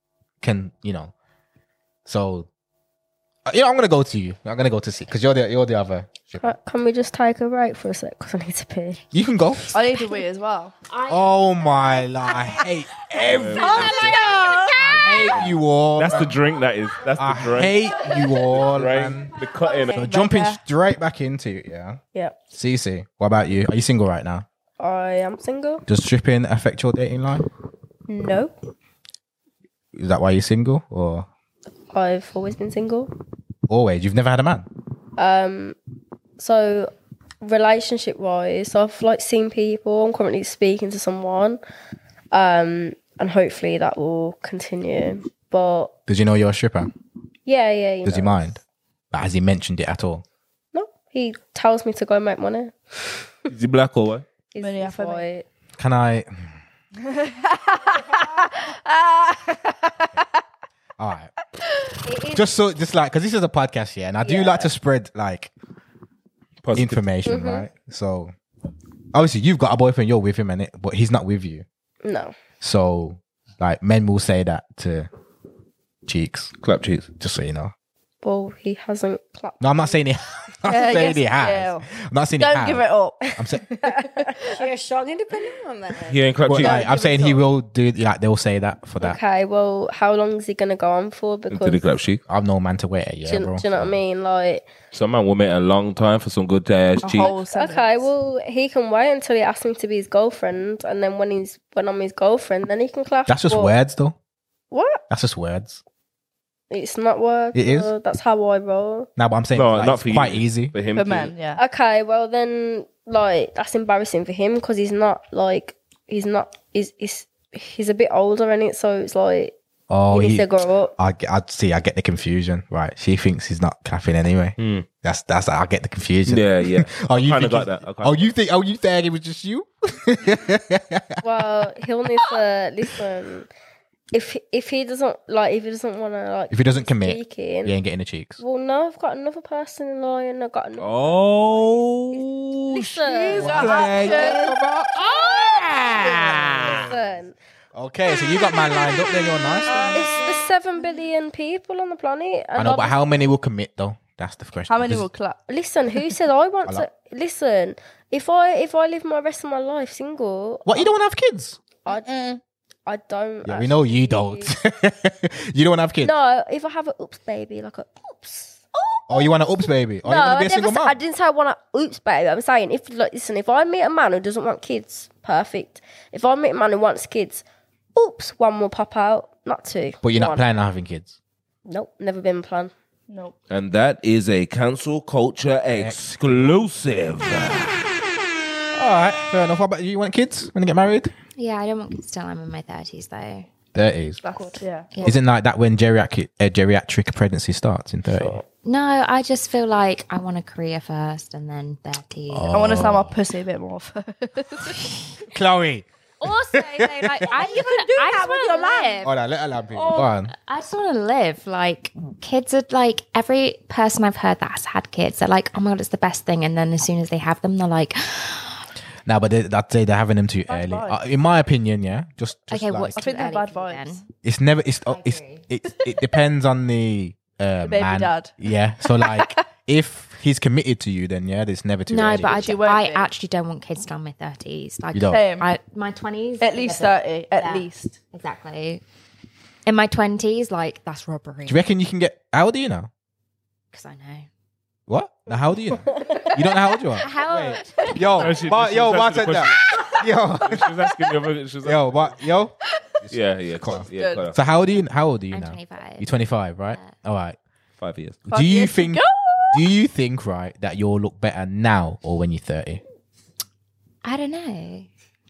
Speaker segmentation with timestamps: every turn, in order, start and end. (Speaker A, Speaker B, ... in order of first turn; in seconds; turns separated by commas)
Speaker A: 0.4-1.1, Speaker A: 2.1-2.5, Speaker A: 3.5-6.5, Speaker B: 6.4-9.0, Speaker A: 9.1-9.8, Speaker C: 9.7-10.7, Speaker D: 10.9-11.2, Speaker A: 11.1-16.4, Speaker E: 13.2-20.1, Speaker C: 13.6-14.8, Speaker D: 13.8-14.3, Speaker A: 17.2-19.3, Speaker A: 19.9-22.0, Speaker C: 20.0-20.6, Speaker A: 22.5-24.5, Speaker B: 24.8-25.8, Speaker A: 25.9-27.5, Speaker B: 28.1-28.5, Speaker A: 29.9-31.3, Speaker B: 31.9-33.1, Speaker A: 33.7-34.7, Speaker B: 35.2-35.8, Speaker B: 36.4-41.6, Speaker B: 42.3-45.9, Speaker A: 46.1-46.9, Speaker B: 47.5-48.6, Speaker A: 48.0-48.6, Speaker A: 49.1-50.2, Speaker B: 50.7-53.2, Speaker E: 53.5-54.2, Speaker B: 54.5-55.5, Speaker C: 54.6-55.3, Speaker A: 55.8-56.3, Speaker C: 57.0-60.3, Speaker A: 61.0-61.3, Speaker D: 62.0-62.4, Speaker A: 62.3-65.5, Speaker B: 64.2-64.7, Speaker E: 66.6-67.0, Speaker A: 66.8-68.3, Speaker B: 67.3-67.7, Speaker A: 69.1-71.7, Speaker B: 72.0-72.3, Speaker A: 72.6-75.1, Speaker A: 76.1-76.5, Speaker E: 76.6-77.1, Speaker A: 77.2-77.7, Speaker B: 78.2-79.6, Speaker A: 79.6-82.9, Speaker C: 80.7-81.9, Speaker C: 82.4-84.5, Speaker A: 83.4-83.6, Speaker B: 83.8-84.5, Speaker D: 84.5-86.2, Speaker E: 86.1-86.9, Speaker A: 86.5-89.2, Speaker C: 86.7-87.2, Speaker B: 89.0-91.8, Speaker E: 91.5-92.2, Speaker A: 92.3-94.0, Speaker B: 93.3-94.7, Speaker E: 94.9-97.3, Speaker C: 97.0-98.1, Speaker B: 97.1-103.7, Speaker A: 103.3-104.2, Speaker B: 104.7-105.0, Speaker A: 105.1-105.8, Speaker B: 106.7-109.1, Speaker A: 107.5-107.9, Speaker A: 109.2-110.8, Speaker E: 109.5-111.3, Speaker C: 111.0-111.6, Speaker B: 111.6-119.5, Speaker A: 119.9-131.2, Speaker B: 120.1-120.9, Speaker E: 124.6-124.9, Speaker E: 126.3-128.3, Speaker B: 131.2-133.5, Speaker B: 134.1-137.7, Speaker A: 136.5-138.4, Speaker B: 138.4-140.9, Speaker E: 140.8-146.9, Speaker B: 142.7-144.3, Speaker C: 143.3-144.5, Speaker A: 143.4-145.1, Speaker A: 145.8-146.8, Speaker C: 146.1-146.7, Speaker B: 146.8-147.3, Speaker A: 147.8-150.1, Speaker D: 149.7-150.4, Speaker B: 149.9-153.0, Speaker A: 152.6-155.1, Speaker C: 154.7-155.4, Speaker B: 155.5-160.9, Speaker A: 160.7-161.6, Speaker D: 162.1-162.4, Speaker B: 162.9-164.5, Speaker A: 163.4-166.1, Speaker B: 166.0-169.3, Speaker A: 169.1-171.0, Speaker B: 170.0-177.4, Speaker B: 178.0-180.4, Speaker A: 180.0-181.2, Speaker B: 181.7-182.7, Speaker C: 183.1-183.3, Speaker E: 183.5-187.9, Speaker A: 185.7-186.7, Speaker A: 188.8-191.1, Speaker F: 191.4-193.5, Speaker A: 193.7-194.2, Speaker B: 194.3-194.6, Speaker C: 194.6-194.9, Speaker F: 194.9-195.2, Speaker A: 195.0-198.4, Speaker F: 198.6-203.0, Speaker A: 202.3-203.1, Speaker C: 202.5-204.9, Speaker A: 205.3-207.3, Speaker F: 206.2-209.2, Speaker D: 207.2-209.1, Speaker A: 209.0-210.3, Speaker D: 209.7-210.1, Speaker F: 210.3-218.6, Speaker A: 219.1-223.0, Speaker C: 220.5-221.0, Speaker F: 222.5-224.1, Speaker C: 222.9-224.0, Speaker A: 224.2-232.4, Speaker F: 224.9-225.5, Speaker C: 227.7-229.4, Speaker F: 231.9-238.8, Speaker C: 232.2-233.1, Speaker A: 234.9-235.2, Speaker C: 235.0-235.5, Speaker C: 236.4-238.0, Speaker F: 239.7-241.6, Speaker A: 241.5-242.9, Speaker F: 243.7-244.3, Speaker A: 244.9-250.7, Speaker F: 246.2-248.4, Speaker E: 248.2-249.6, Speaker E: 250.4-252.1, Speaker A: 251.6-252.5, Speaker A: 253.1-257.4, Speaker E: 253.1-254.4, Speaker C: 253.7-254.3, Speaker F: 255.3-256.1, Speaker F: 256.7-256.9, Speaker E: 257.8-258.2, Speaker C: 258.3-259.7, Speaker A: 258.3-262.8, Speaker F: 264.0-264.9